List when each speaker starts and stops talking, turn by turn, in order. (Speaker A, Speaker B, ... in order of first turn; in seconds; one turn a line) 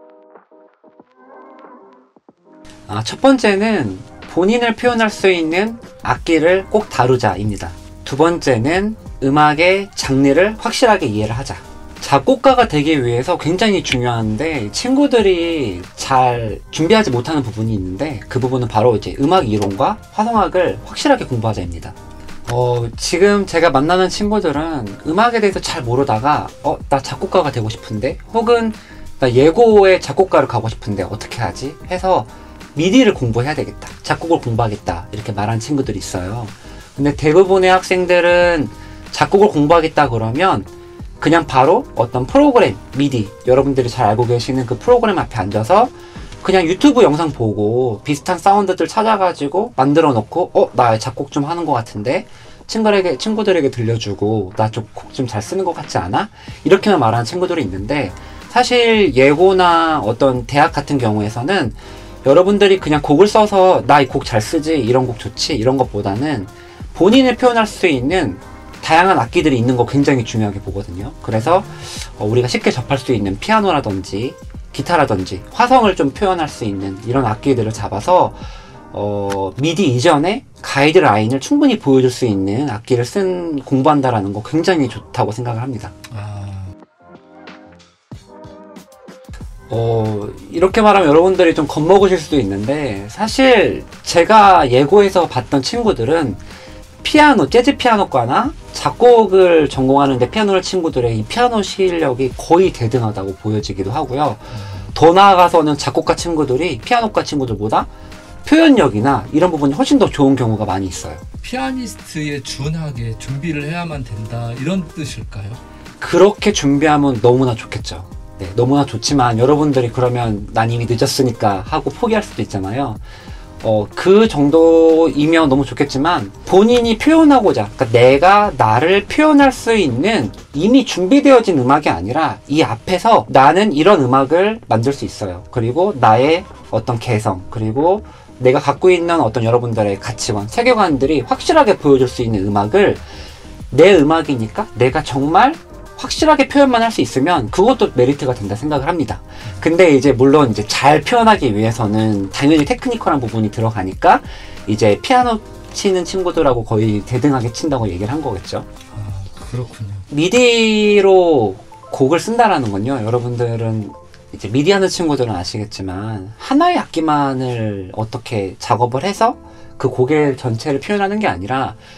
Speaker A: 2.9-78.4
Speaker A: 78.9-86.0
Speaker B: 86.1-86.7
Speaker A: 89.7-96.4
Speaker A: 97.0-107.9
Speaker A: 108.4-111.2
Speaker B: 111.4-115.6
Speaker A: 116.0-123.0
Speaker A: 123.6-143.0
Speaker A: 143.7-158.7
Speaker B: 158.9-160.1
Speaker A: 160.1-171.8